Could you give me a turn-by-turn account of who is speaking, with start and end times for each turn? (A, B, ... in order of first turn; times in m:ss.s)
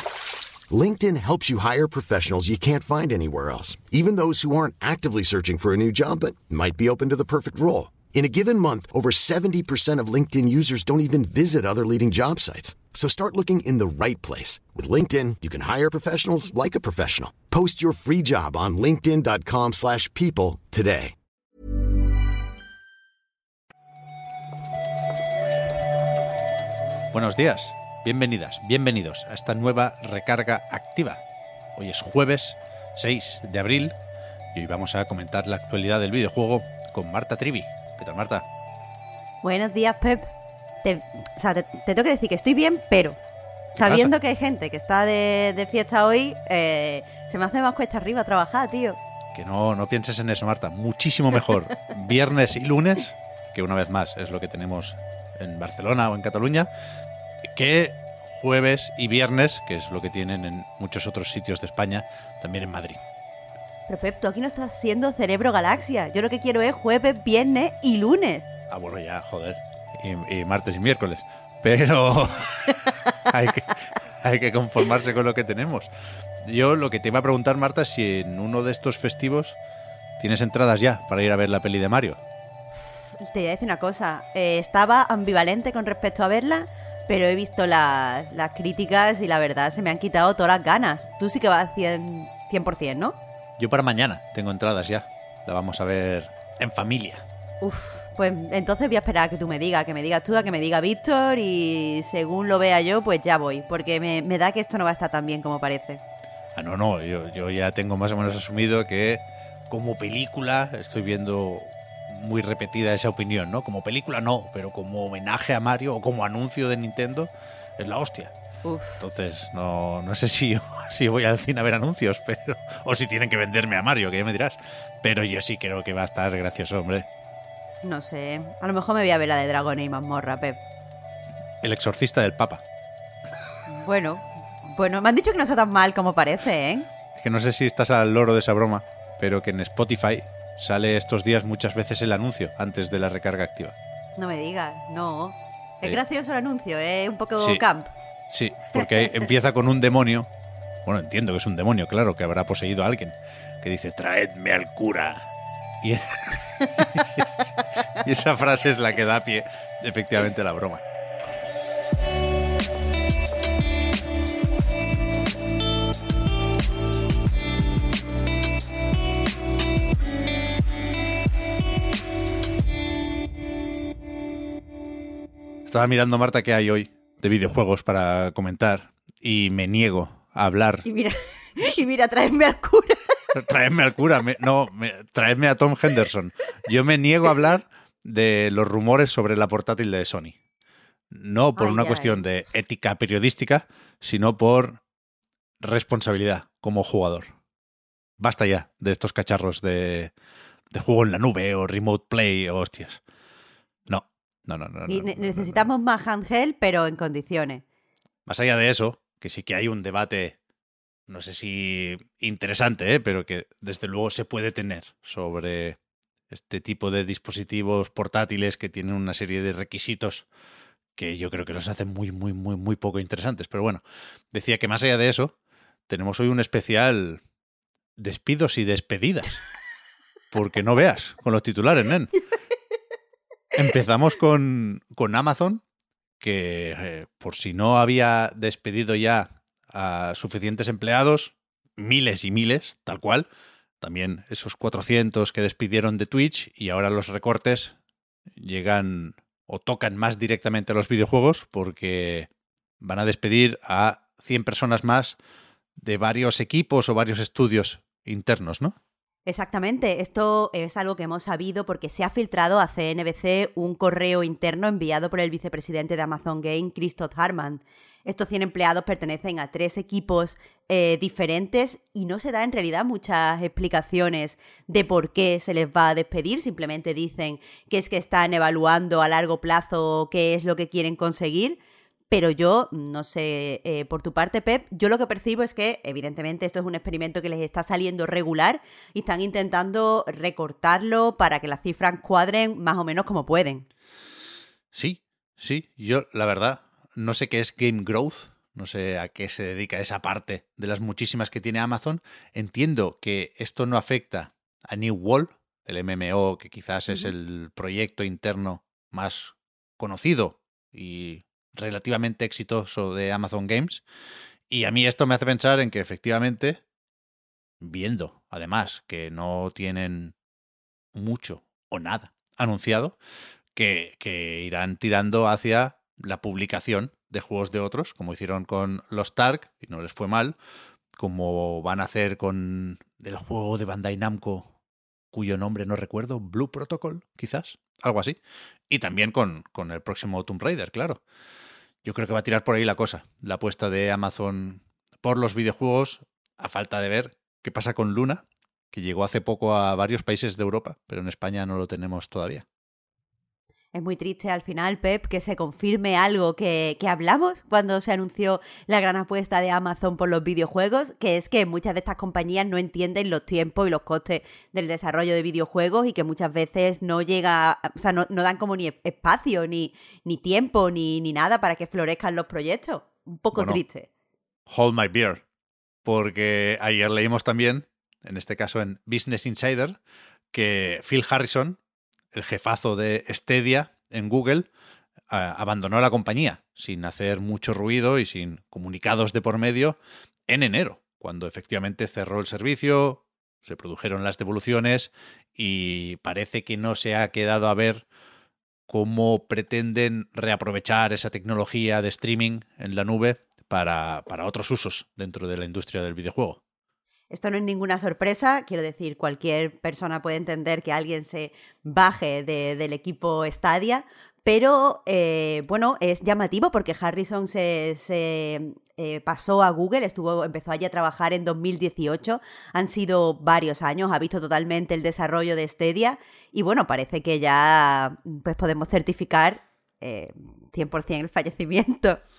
0:00.7-0:21.2 A
0:27.1-0:31.2 B
0:31.8-0:34.0 B
0:34.6-0:38.4 B
0:39.4-0:40.2 C
0:40.8-0:43.2 C
0:43.8-0:49.0 C
0:43.8-0:44.1 B
0:49.3-0:56.7 B
0:57.5-1:03.0 B
1:03.9-1:08.5 C
1:08.7-1:15.9 B
1:16.4-1:19.6 B
1:20.2-1:22.2 B
1:23.2-1:33.2 C
1:33.6-1:37.2 B
1:37.6-1:46.0 C
1:46.6-1:58.3 B
1:58.6-1:59.0 C
1:59.0-2:07.1 B
2:07.8-2:10.6 C
2:11.6-2:12.6 B
2:13.7-2:16.9 C
2:17.2-2:23.8 B
2:24.2-2:27.9 C
2:27.4-2:27.6 B
2:28.3-2:30.3 B
2:28.8-2:29.1 C
2:30.9-2:35.3 B
2:35.8-2:40.8 B
2:55.7-3:00.8 B
3:00.8-3:03.2 C
3:03.3-3:10.4 B
3:11.1-3:14.8 B
3:11.6-3:12.3 C
3:15.6-3:17.3 B
3:18.2-3:20.1 B
3:20.7-3:23.0 B
3:23.9-3:25.7 B
3:24.9-3:27.6 C
3:28.3-3:30.4 B
3:31.1-3:35.8 B
3:36.3-3:40.3 B
3:41.0-3:43.8 B
3:44.3-3:45.3 B
3:45.9-3:47.2 B
3:48.0-3:49.4 B
3:50.3-3:52.2 B
3:53.5-3:55.6 B
3:56.2-4:03.3 B
4:03.8-4:07.8 B
4:08.4-4:12.3 B
4:12.8-4:15.2 B
4:15.8-4:18.8 B
4:19.3-4:41.6 C
4:42.1-4:53.6 C
4:54.7-5:13.8 B
5:14.5-5:16.6 B
5:17.6-5:20.1 B
5:20.9-5:23.0 B
5:23.6-5:30.4 B
5:31.0-5:34.5 B
5:35.1-5:38.2 B
5:38.7-5:41.0 B
5:41.8-5:52.4 B
5:53.7-6:13.9 C
6:13.3-6:13.6 B
6:14.5-6:15.2 B
6:15.8-6:19.8 B
6:20.3-6:21.6 B
6:22.1-6:24.5 B
6:25.1-6:37.9 B
6:38.7-6:46.4 B
6:47.1-7:12.0 C